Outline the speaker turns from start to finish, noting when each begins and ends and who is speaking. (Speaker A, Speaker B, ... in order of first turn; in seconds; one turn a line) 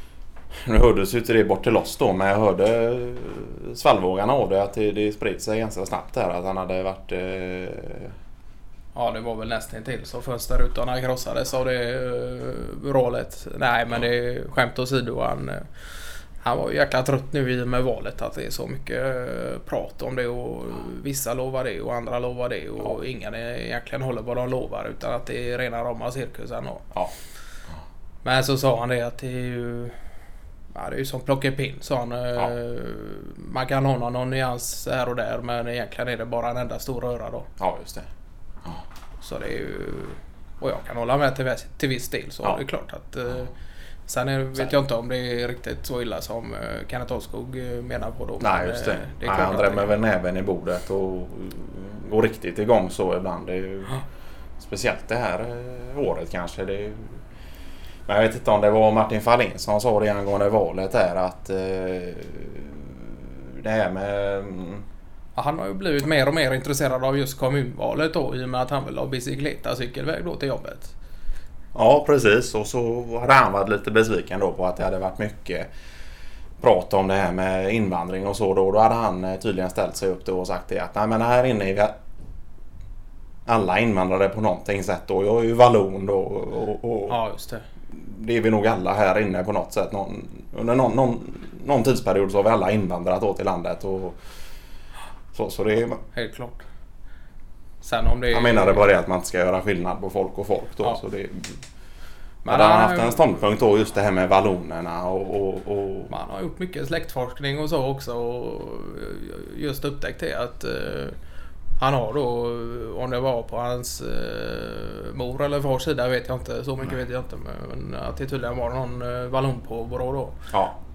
Speaker A: 0.6-8.1
Speaker B: 8.9-26.9
Speaker B: 28.2-30.0
Speaker B: 30.7-37.5
Speaker A: 37.6-38.1
Speaker B: 39.2-43.5
Speaker B: 44.0-49.9
Speaker A: 48.4-54.0
Speaker A: 54.6-57.2
Speaker A: 58.1-64.8
Speaker B: 65.3-70.9
Speaker A: 71.7-75.7
Speaker A: 76.6-81.9
Speaker A: 83.5-87.2
Speaker B: 87.1-87.7
Speaker A: 87.9-94.2
Speaker A: 95.3-96.0
Speaker B: 96.1-96.6
Speaker B: 97.8-98.9
Speaker A: 98.3-101.6
Speaker B: 102.4-103.3
Speaker A: 102.5-106.1
Speaker B: 106.1-111.2
Speaker B: 111.8-120.4
Speaker A: 120.5-120.8